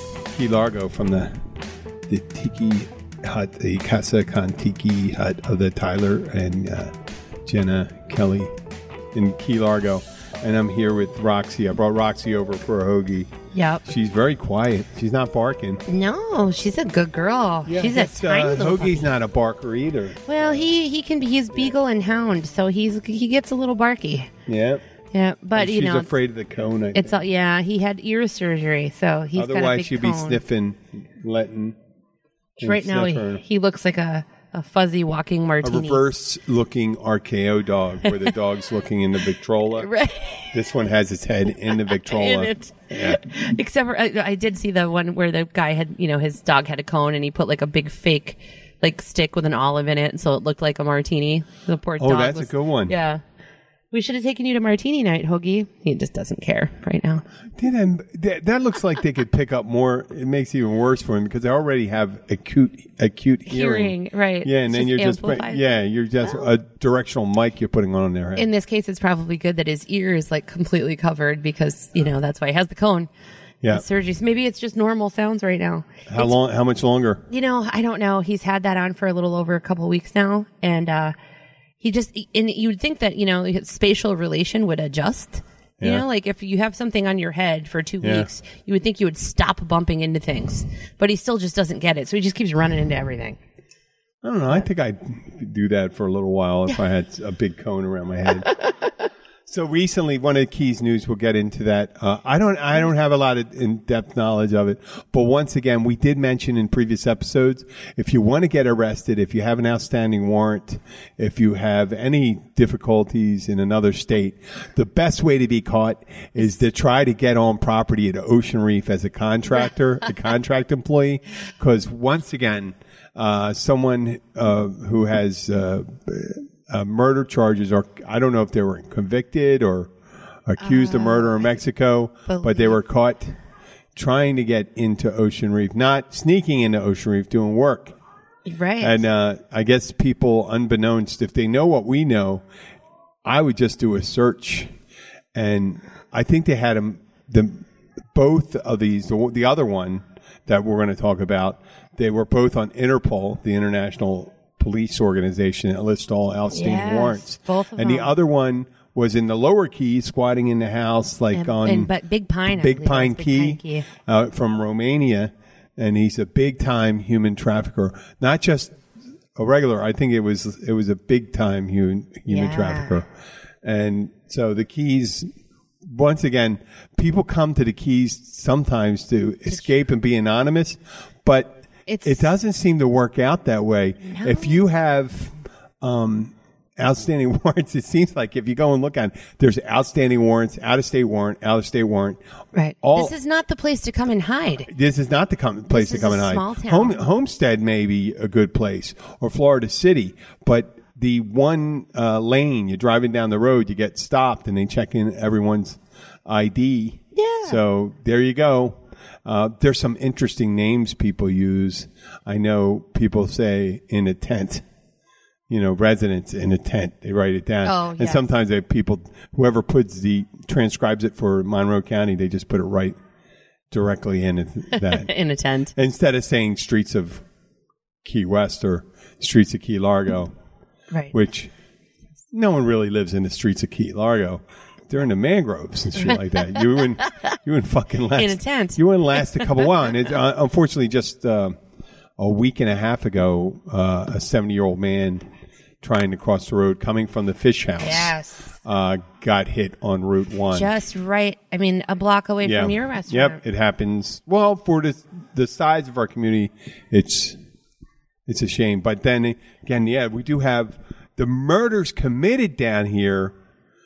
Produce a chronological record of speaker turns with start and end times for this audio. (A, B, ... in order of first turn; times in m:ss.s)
0:00.3-0:01.4 A
0:02.1-0:06.9 A
0:07.4-0:08.5 A
0:09.1-0:13.3 A
0:13.5-0:13.8 B
0:13.8-0:15.8 A
0:15.9-0:19.1 B
0:17.6-0:20.7 A
0:20.2-0:24.3 B
0:24.5-0:24.8 A
0:25.1-0:26.1 B
0:25.6-0:27.2 A
0:26.9-0:30.4 B
0:29.3-0:31.8 A
0:32.6-0:33.4 A
0:32.6-0:36.0 B
0:35.6-0:39.9 A
0:39.8-0:40.5 B
0:40.5-0:43.2 A
0:41.7-0:53.2 B
0:52.0-0:52.9 A
0:53.9-0:57.2 B
0:57.5-1:08.5 A
1:03.5-1:05.6 B
1:08.4-1:13.1 B
1:13.7-1:16.3 B
1:16.1-1:17.2 A
1:17.3-1:21.1 B
1:21.8-1:33.4 B
1:25.8-1:26.0 A
1:28.0-1:28.3 A
1:34.2-1:38.6 A
1:39.5-2:09.9 A
2:10.4-2:13.4 A
2:10.6-2:11.5 B
2:12.3-2:12.8 B
2:14.0-2:17.9 A
2:18.4-2:19.0 B
2:18.8-2:22.4 A
2:23.2-2:24.7 A
2:25.3-2:27.6 A
2:28.1-2:41.9 A
2:36.5-2:38.1 B
2:41.3-2:43.9 B
2:42.5-2:48.8 A
2:49.4-2:53.1 A
2:52.3-2:52.9 B
2:53.6-2:55.3 A
2:55.8-3:01.5 A
3:01.9-3:02.2 B
3:02.0-3:12.2 A
3:04.0-3:04.6 B
3:12.5-3:14.7 B
3:12.8-3:13.1 A
3:14.7-3:34.6 A
3:15.7-3:17.0 B
3:27.2-3:27.6 B
3:35.5-3:43.0 A
3:37.6-3:38.2 B
3:43.7-3:45.1 A
3:44.7-3:45.7 B
3:45.7-3:47.2 A
3:48.0-3:50.3 A
3:51.1-3:51.5 A
3:52.3-4:01.6 A
3:56.0-3:56.6 B
3:58.1-3:59.5 B
4:02.2-4:05.2 A
4:05.8-4:10.7 A
4:07.8-4:08.5 B
4:10.5-4:13.4 B
4:12.4-4:17.4 A
4:18.3-4:23.3 A